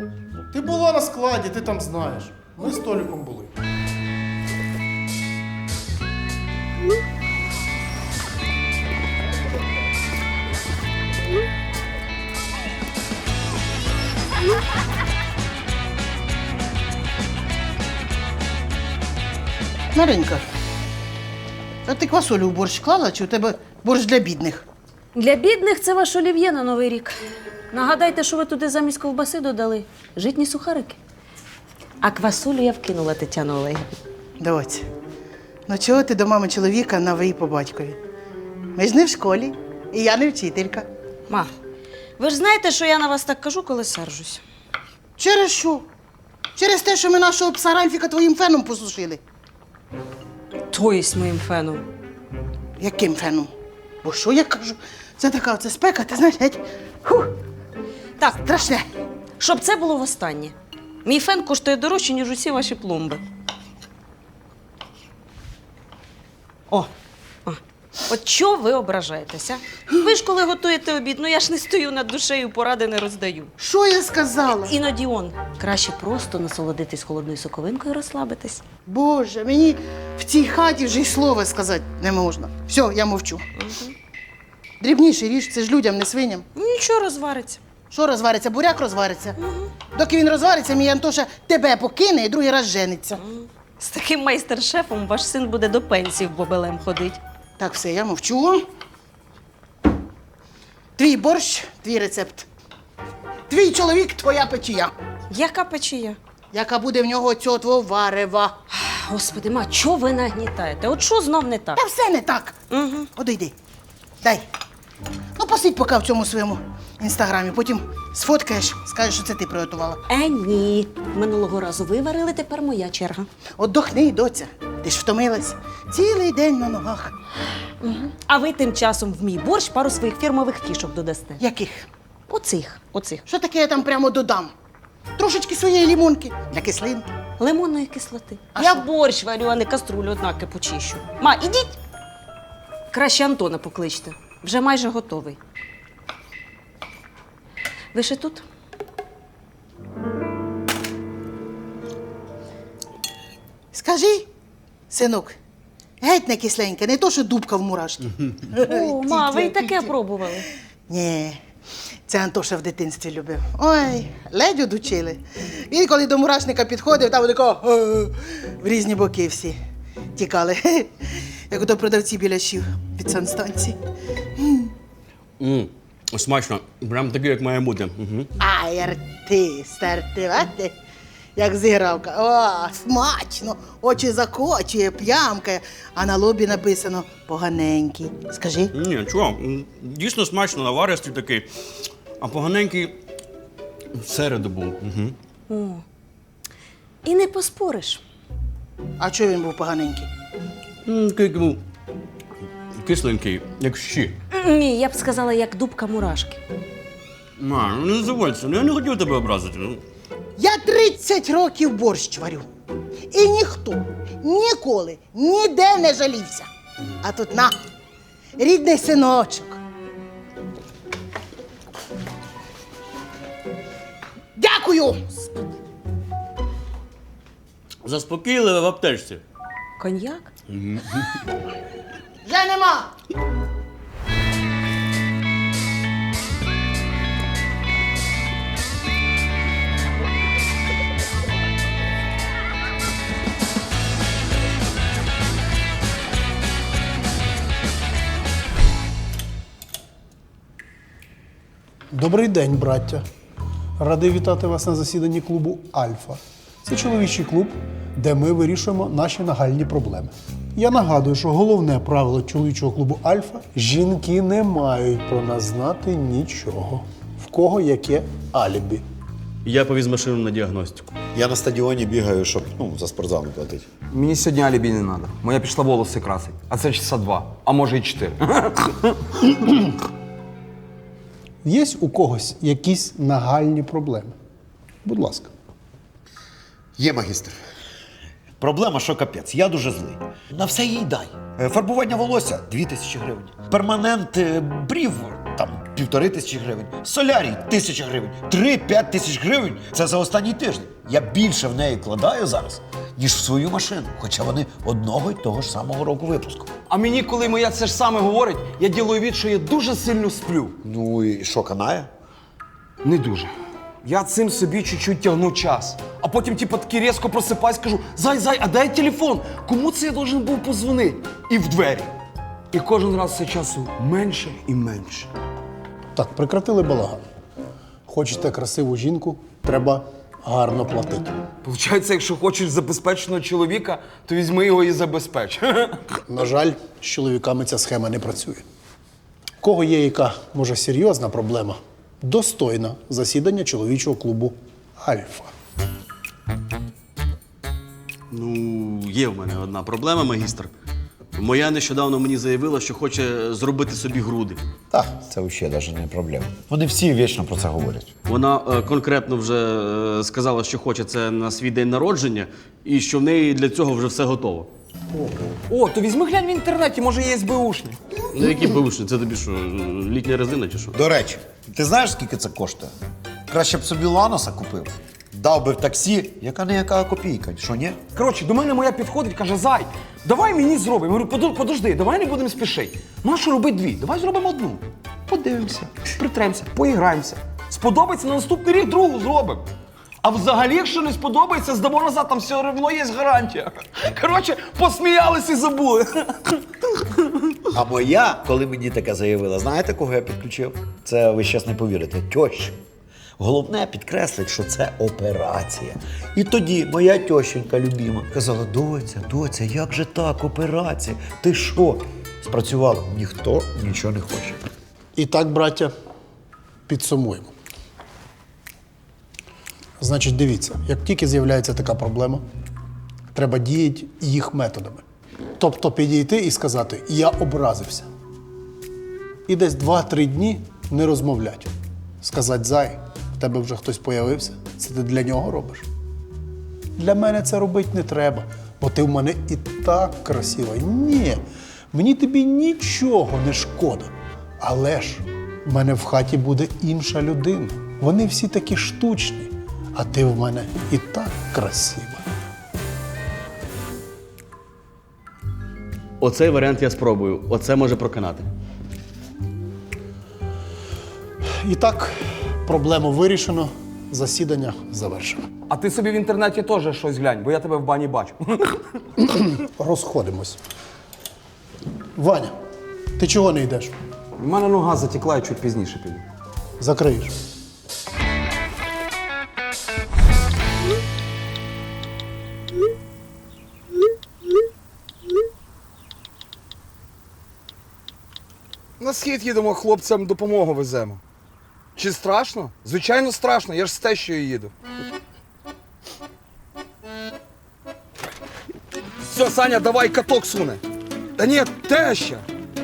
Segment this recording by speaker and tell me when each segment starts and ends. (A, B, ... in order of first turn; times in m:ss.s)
0:00.5-0:03.5 A
0:20.0-0:20.4 B
0:21.9-0:24.6 B
0:25.2-0:27.2 C
0:27.7-0:31.0 C
0:32.0-0:33.9 C
0:34.4-0:34.9 B
0:35.7-0:38.0 B
0:38.8-0:40.9 B
0:42.2-0:44.4 C
0:45.2-0:45.9 B
0:46.6-0:49.2 B
0:50.7-0:51.8 C
0:52.8-0:53.5 B
0:54.0-0:57.3 B
0:58.3-0:58.9 B
0:59.4-1:00.5 C
1:01.0-1:03.2 C
1:07.4-1:13.5 C
1:13.6-1:14.7 B
1:14.6-1:18.6 C
1:18.9-1:23.5 B
1:23.6-1:23.9 C
1:24.8-1:26.5 B
1:26.6-1:27.6 C
1:27.9-1:29.4 B
1:29.4-1:29.7 C
1:29.9-1:33.2 B
1:33.2-1:37.2 C
1:37.6-1:38.6 B
1:41.0-1:42.5 B
1:43.5-1:44.9 B
1:45.3-1:46.2 C
1:46.5-1:48.6 B
1:48.7-1:51.8 C
1:51.8-1:52.6 B
1:52.7-1:53.1 C
1:53.2-1:53.5 B
1:55.4-2:00.0 B
2:00.1-2:03.3 C
2:03.6-2:07.1 B
2:07.8-2:11.4 C
2:11.4-2:11.9 B
2:12.3-2:13.2 C
2:13.3-2:14.5 B
2:15.2-2:17.1 B
2:17.4-2:21.8 C
2:18.6-2:18.8 B
2:22.9-2:25.4 C
2:27.9-2:28.4 C
2:33.7-2:34.3 B
2:34.9-2:35.4 B
2:36.0-2:40.0 B
2:38.6-2:40.5 C
2:40.9-2:41.4 B
2:42.1-2:49.6 B
2:50.2-2:53.8 B
2:54.4-2:54.7 B
2:55.4-2:58.3 D
2:58.4-3:00.7 B
3:01.4-3:08.7 B
3:08.7-3:11.5 D
3:12.2-3:13.0 D
3:13.9-3:15.2 D
3:15.5-3:15.8 C
3:17.0-3:18.0 C
3:19.0-3:20.1 B
3:20.8-3:21.6 D
3:22.8-3:24.2 D
3:24.3-3:26.4 C
3:27.4-3:29.8 D
3:30.4-3:32.5 B
3:33.1-3:36.5 B
3:37.0-3:37.5 B
3:38.4-3:39.6 B
3:44.4-3:45.1 B
3:47.8-3:49.2 D
3:49.8-3:50.3 C
3:52.2-3:52.9 B
4:11.9-4:13.0 A
4:13.8-4:28.8 A
4:29.4-4:30.9 D
4:31.1-4:33.7 E
4:33.9-4:39.5 F
4:41.4-4:44.2 A
4:44.8-4:45.3 A
4:46.8-4:47.4 E
4:48.4-5:06.5 E
5:06.7-5:10.6 F
5:10.6-5:11.9 E
5:12.8-5:13.3 F
5:13.8-5:21.9 F
5:22.5-5:25.1 F
5:26.0-5:27.0 A
5:27.9-5:31.1 A
5:31.4-5:35.8 F
5:36.1-5:38.4 A
5:39.4-5:45.3 A
5:48.1-5:50.5 D
5:51.2-5:54.4 D
5:54.7-5:57.9 E
5:58.1-6:04.5 D
6:05.5-6:07.8 F
6:08.1-6:10.8 D
6:10.7-6:12.7 E
6:13.3-6:17.8 E
6:18.0-6:29.4 F
6:30.0-6:36.4 F
6:37.5-6:42.6 E
6:43.2-6:54.4 E
6:55.0-6:55.7 A
6:56.7-6:57.3 A
6:59.8-7:02.2 A
7:03.1-7:04.8 A
7:05.4-7:07.9 A
7:09.3-7:15.7 A
7:16.8-7:32.0 A
7:36.0-7:38.3 D
7:41.2-7:45.2 A
7:45.5-7:48.6 F
7:49.0-7:50.4 A
7:52.0-7:52.4 A
7:53.0-7:53.7 A
7:54.2-7:56.0 F
7:56.6-7:57.1 A
8:08.8-8:11.0 F
8:11.8-8:14.5 F
8:19.1-8:20.6 F
8:21.2-8:22.2 F